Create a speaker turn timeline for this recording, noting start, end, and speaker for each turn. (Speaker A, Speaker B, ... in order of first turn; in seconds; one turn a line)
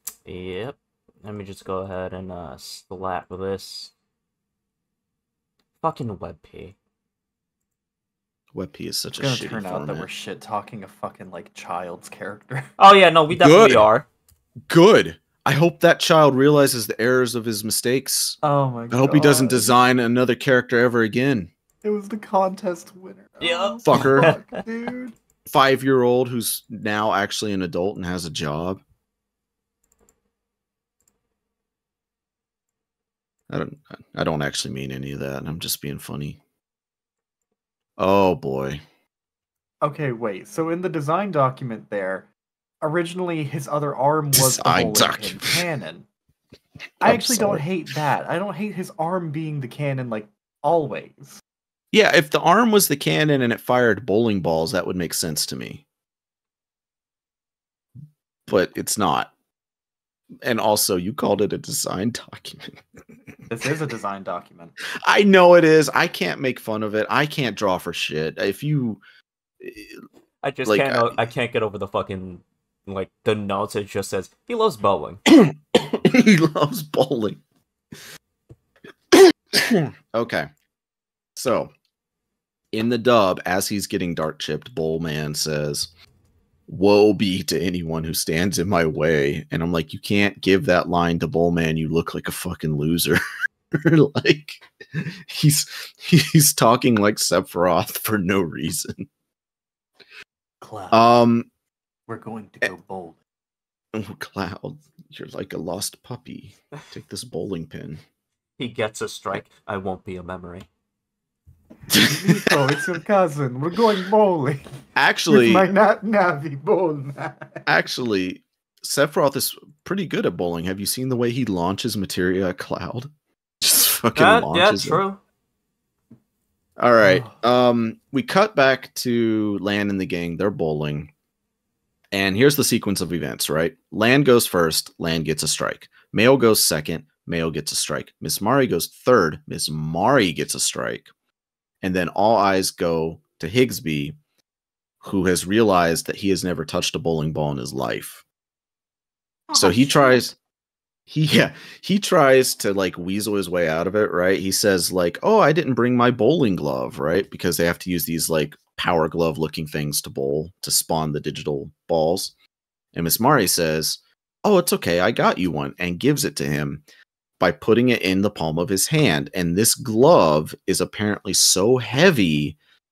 Speaker A: 0.3-3.9
Speaker A: 5.8-6.8
Speaker B: 8.5-10.1
Speaker C: 9.2-12.7
Speaker A: 12.8-14.1
Speaker B: 13.4-13.9
Speaker B: 14.7-18.4
Speaker C: 18.4-19.7
Speaker B: 18.9-21.5
Speaker C: 21.8-25.1
Speaker A: 23.4-24.4
Speaker B: 23.8-24.3
Speaker B: 25.5-28.8
Speaker B: 33.5-36.4
Speaker B: 38.0-38.8
Speaker C: 39.8-42.3
Speaker C: 42.8-46.0
Speaker B: 44.3-45.6
Speaker B: 47.0-47.6
Speaker C: 47.0-51.4
Speaker B: 51.9-55.8
Speaker B: 58.5-59.3
Speaker B: 60.4-62.8
Speaker C: 63.5-64.7
Speaker B: 65.0-69.0
Speaker B: 69.6-70.0
Speaker A: 70.4-75.2
Speaker B: 70.7-71.1
Speaker B: 75.3-77.4
Speaker B: 79.1-80.5
Speaker B: 81.4-81.7
Speaker B: 82.7-85.9
Speaker B: 86.7-93.2
Speaker B: 93.7-99.1
Speaker C: 100.6-101.0
Speaker B: 100.9-101.5
Speaker C: 102.1-103.2
Speaker B: 103.9-108.0
Speaker A: 108.6-110.7
Speaker C: 111.9-114.7
Speaker B: 111.9-112.6
Speaker B: 115.0-115.7
Speaker C: 115.3-117.6
Speaker B: 117.7-125.0
Speaker A: 124.2-125.2
Speaker B: 126.8-131.1
Speaker C: 127.0-127.3
Speaker B: 132.1-141.1
Speaker B: 141.8-144.2
Speaker B: 145.0-148.2
Speaker C: 149.5-150.2
Speaker B: 149.5-150.3
Speaker B: 151.1-162.3
Speaker B: 162.9-166.8
Speaker B: 167.4-172.6